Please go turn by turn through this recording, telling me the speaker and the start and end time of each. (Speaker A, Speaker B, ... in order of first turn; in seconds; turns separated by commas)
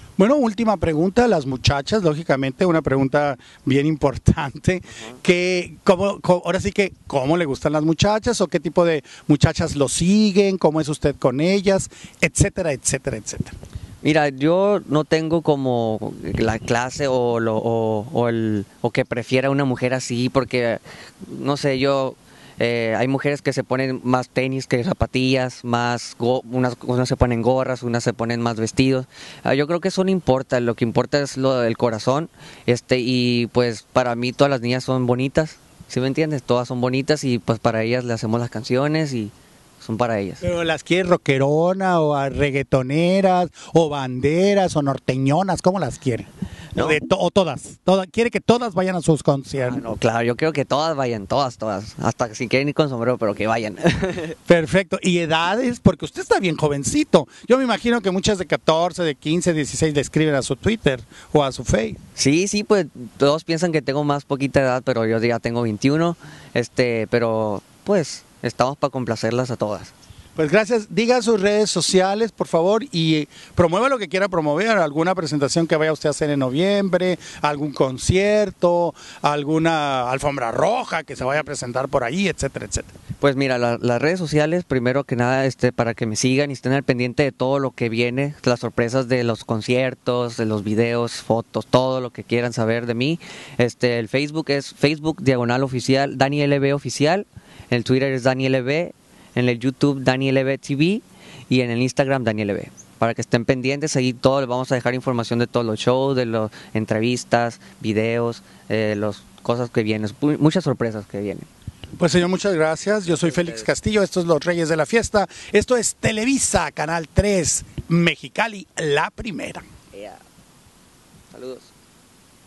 Speaker A: 0.2-13.6, Speaker B: 14.0-40.4, Speaker A: 40.4-49.8, Speaker B: 49.6-54.4, Speaker A: 54.5-62.0, Speaker B: 62.2-69.9, Speaker A: 70.4-82.9, Speaker B: 83.2-111.5, Speaker A: 112.0-119.7, Speaker B: 113.1-113.7, Speaker B: 119.9-120.2, Speaker B: 121.3-121.7